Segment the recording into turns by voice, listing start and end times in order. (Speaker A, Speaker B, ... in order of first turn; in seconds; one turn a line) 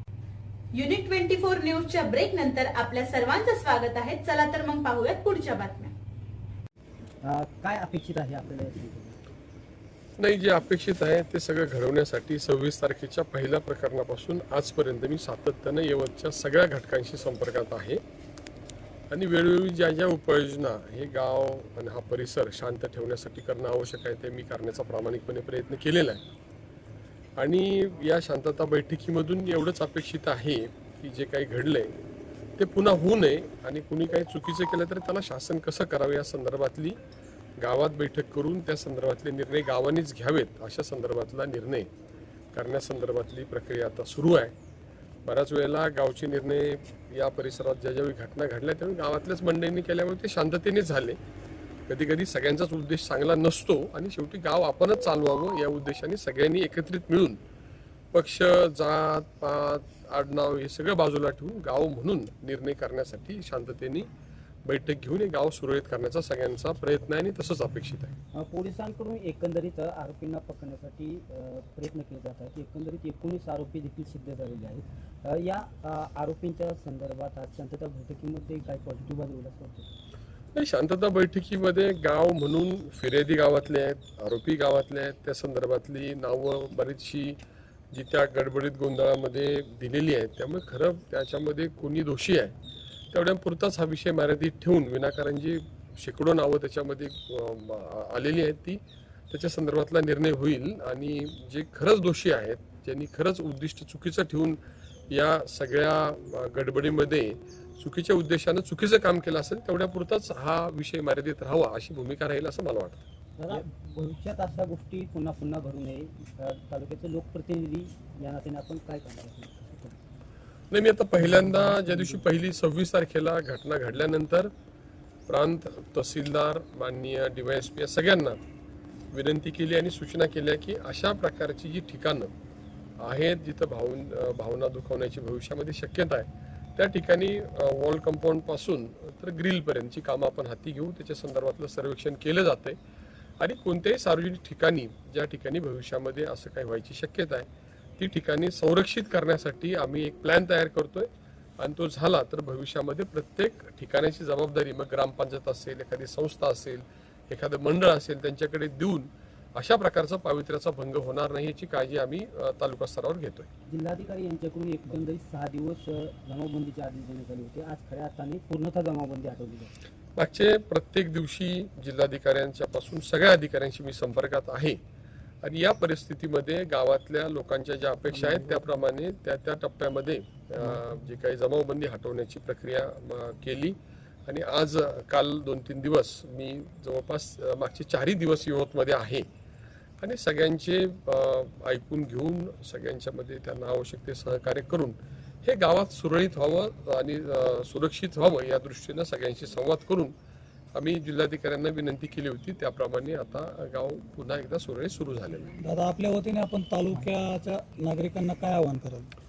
Speaker A: 0.7-5.9
Speaker B: 7.2-9.2
Speaker C: 10.2-18.0
Speaker C: 19.1-26.2
Speaker C: 27.4-31.9
Speaker C: 32.6-37.0
Speaker C: 37.6-41.9
Speaker C: 42.5-44.5
Speaker C: 45.3-51.2
Speaker C: 51.9-57.4
Speaker C: 58.1-64.1
Speaker C: 64.6-68.1
Speaker B: 68.3-79.9
Speaker C: 80.5-87.4
Speaker C: 87.9-92.5
Speaker C: 93.1-113.0
Speaker B: 113.4-120.0
Speaker C: 120.7-124.5
Speaker B: 121.6-122.0
Speaker C: 125.3-128.4
Speaker C: 129.1-132.3
Speaker C: 133.0-142.8
Speaker C: 143.4-163.5
Speaker B: 163.7-169.7
Speaker C: 170.2-174.8
Speaker C: 175.4-189.2
Speaker C: 190.0-200.1
Speaker C: 200.7-205.5
Speaker D: 205.6-209.1